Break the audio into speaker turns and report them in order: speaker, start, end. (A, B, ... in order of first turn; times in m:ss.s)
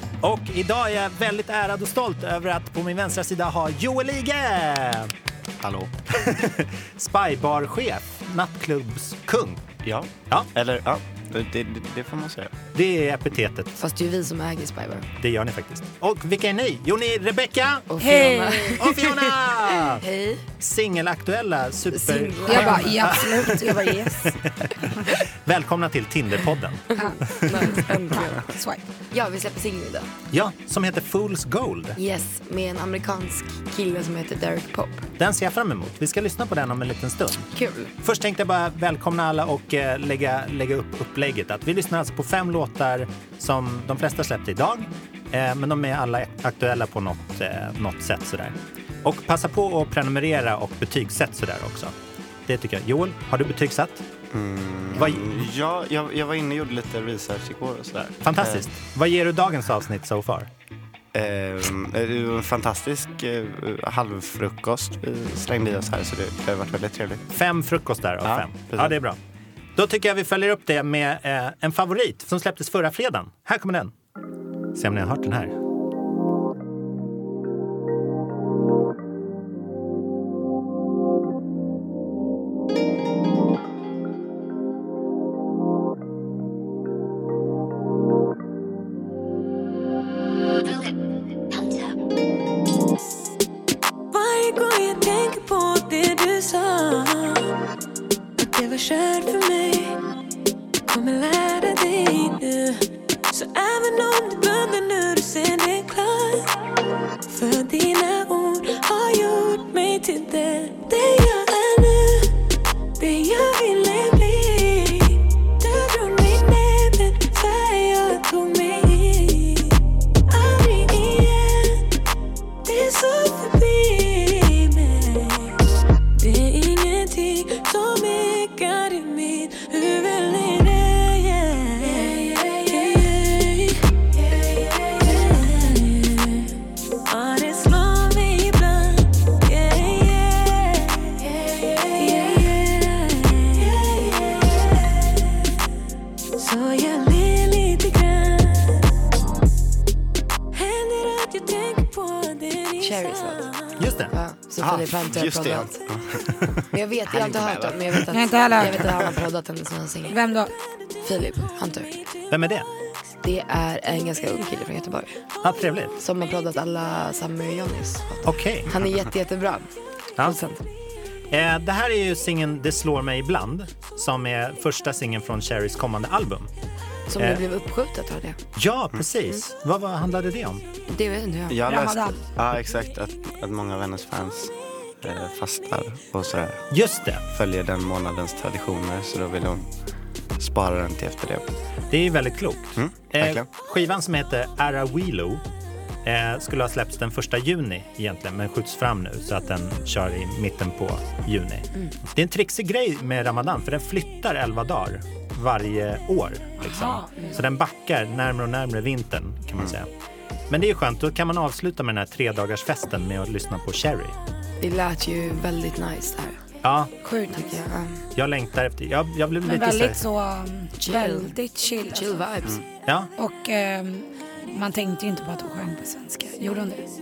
0:00.2-0:05.1 A
0:05.6-0:05.9 B
0:06.1-0:09.7 A
0:09.8-0:12.5 B
0:12.7-0:13.8 A
0:13.8-0:15.1 C
0:15.2-0:17.9 A
0:17.9-0:20.4 C
0:18.0-0:18.9 D
0:18.8-0:20.0 A
0:20.6-0:23.6 A
0:21.9-0:24.0 C
0:22.4-0:24.3 D
0:24.2-0:27.5 A
0:26.9-0:28.5 C
0:27.0-0:28.8 D
0:29.1-0:30.1 C
0:30.3-0:32.0 A
0:32.0-0:35.1 C
0:35.2-0:37.5 A
0:37.5-0:37.9 C
0:38.0-0:51.9 A
0:52.5-0:54.0 A
0:54.3-0:58.7 B
0:54.9-0:55.4 A
0:58.2-1:00.5 A
1:01.1-1:07.2 B
1:07.3-1:09.2 A
1:08.2-1:09.0 B
1:09.8-1:13.9 A
1:14.7-1:15.5 A
1:34.1-1:37.5 E
1:38.4-1:40.0 E
1:40.9-1:46.5 E
1:47.3-1:52.3 E
1:53.0-1:59.8 E
2:00.3-2:01.8 E
2:02.6-2:05.6 E
2:06.2-2:16.5 E
2:17.1-2:25.1 E
2:26.4-2:28.8 E
2:30.5-2:33.7 E
2:32.8-2:33.5 C
2:33.8-2:34.1 A
2:34.1-2:35.8 C
2:34.6-2:39.2 B
2:36.7-2:40.3 C
2:38.1-2:38.7 D
2:40.1-2:40.5 D
2:41.0-2:41.9 C
2:42.3-2:42.7 A
2:43.2-2:45.1 C
2:45.4-2:46.0 A
2:46.0-2:49.7 C
2:48.2-2:48.7 A
2:50.2-2:50.6 C
2:51.3-2:56.5 A
2:57.1-2:58.4 C
2:58.6-3:00.6 A
3:00.9-3:01.6 C
3:01.5-3:06.6 B
3:01.6-3:02.2 D
3:06.7-3:07.2 A
3:07.3-3:09.6 B
3:10.4-3:11.5 B
3:11.9-3:15.4 A
3:12.8-3:13.5 B
3:16.0-3:29.9 A
3:26.6-3:27.4 D
3:30.5-3:34.1 A
3:34.6-3:36.4 C
3:36.6-3:36.9 A
3:37.0-3:37.5 D
3:37.3-3:38.0 C
3:38.1-3:40.0 A
3:39.4-3:42.2 D
3:40.8-3:41.3 C
3:41.9-3:42.6 C
3:43.2-3:46.9 D